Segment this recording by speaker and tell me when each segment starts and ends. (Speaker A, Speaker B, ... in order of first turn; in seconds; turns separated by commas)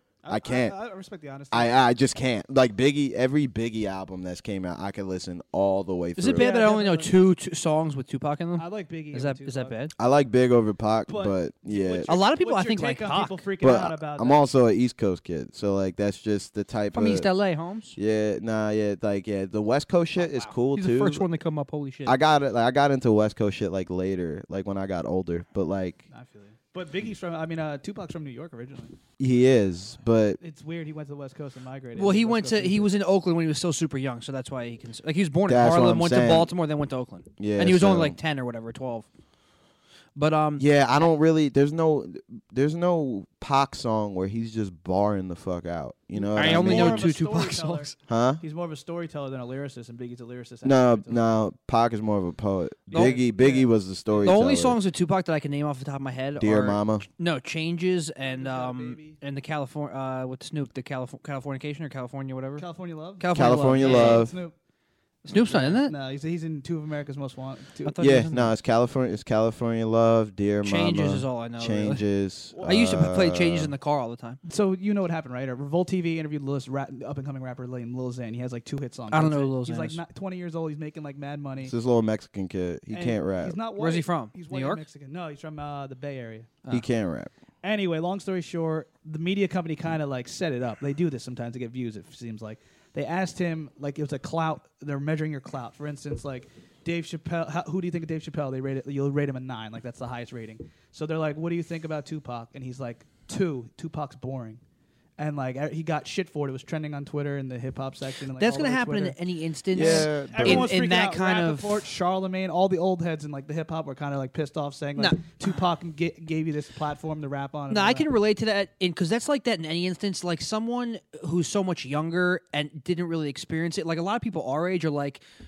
Speaker A: 0.2-1.8, Speaker B: 0.3-0.7, Speaker B: 1.5-6.5, Speaker C: 6.2-9.9, Speaker A: 6.3-7.1, Speaker A: 8.6-9.7, Speaker B: 10.0-12.1, Speaker A: 11.1-14.4, Speaker C: 12.1-13.5, Speaker B: 13.6-17.3, Speaker C: 16.9-18.0, Speaker B: 18.0-21.2, Speaker C: 20.1-22.2, Speaker B: 22.1-26.0, Speaker A: 26.1-28.9, Speaker B: 29.2-30.4, Speaker A: 30.4-32.9, Speaker C: 31.9-39.1, Speaker B: 35.5-36.5, Speaker B: 37.4-38.2, Speaker C: 40.1-40.6, Speaker B: 40.6-47.1, Speaker A: 46.2-51.2, Speaker C: 46.3-47.9, Speaker B: 48.1-48.4, Speaker B: 50.6-54.8, Speaker C: 52.9-53.2, Speaker A: 52.9-54.2, Speaker C: 54.2-62.7, Speaker B: 56.4-57.0, Speaker A: 58.2-59.2, Speaker A: 62.6-64.5, Speaker C: 63.2-64.2, Speaker B: 63.3-64.3, Speaker C: 65.2-65.9, Speaker A: 65.3-68.1, Speaker C: 67.8-68.5, Speaker B: 68.0-73.7, Speaker C: 70.6-72.0, Speaker C: 72.6-74.4, Speaker A: 74.5-81.7, Speaker C: 79.1-80.0, Speaker B: 81.6-83.6, Speaker A: 82.9-86.6, Speaker C: 83.8-84.8, Speaker B: 86.7-87.3, Speaker A: 87.6-104.6, Speaker A: 105.2-109.2, Speaker C: 108.3-111.8, Speaker B: 109.7-110.7, Speaker A: 109.7-118.1, Speaker C: 115.0-115.6, Speaker C: 117.7-125.2